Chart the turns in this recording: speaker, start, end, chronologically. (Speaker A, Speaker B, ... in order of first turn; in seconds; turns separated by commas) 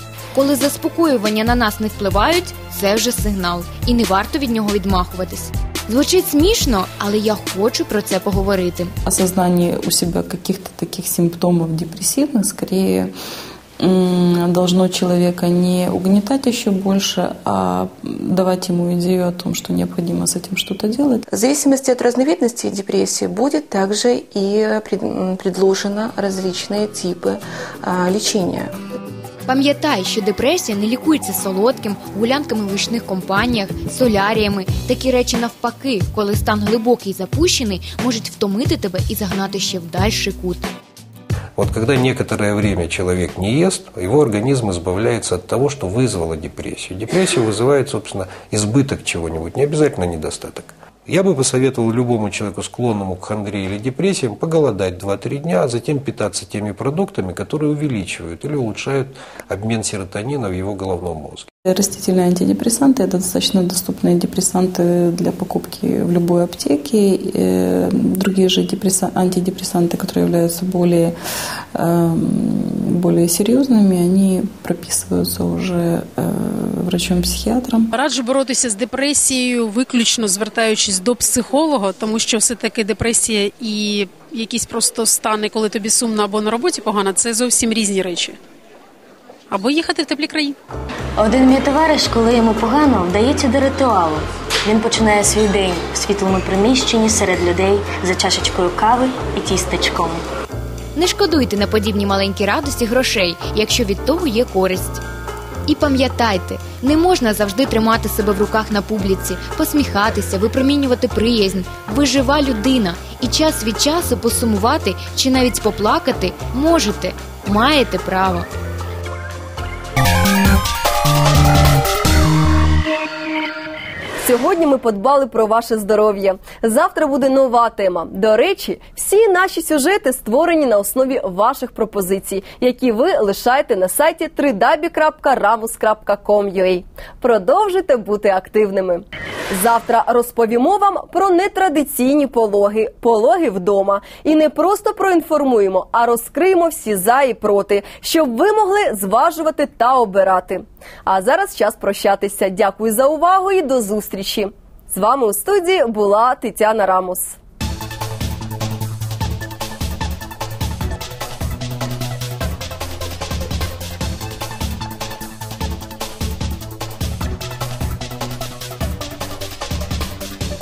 Speaker A: 0.3-8.9, Speaker B: 9.0-13.1, Speaker B: 13.8-21.2, Speaker C: 21.3-28.7, Speaker A: 29.5-40.7, Speaker D: 41.6-61.5, Speaker B: 61.6-71.1, Speaker B: 71.7-77.9, Speaker E: 77.9-88.3, Speaker E: 89.5-90.5, Speaker F: 91.2-100.2, Speaker A: 101.0-105.0, Speaker A: 105.7-118.5, Speaker G: 124.2-157.3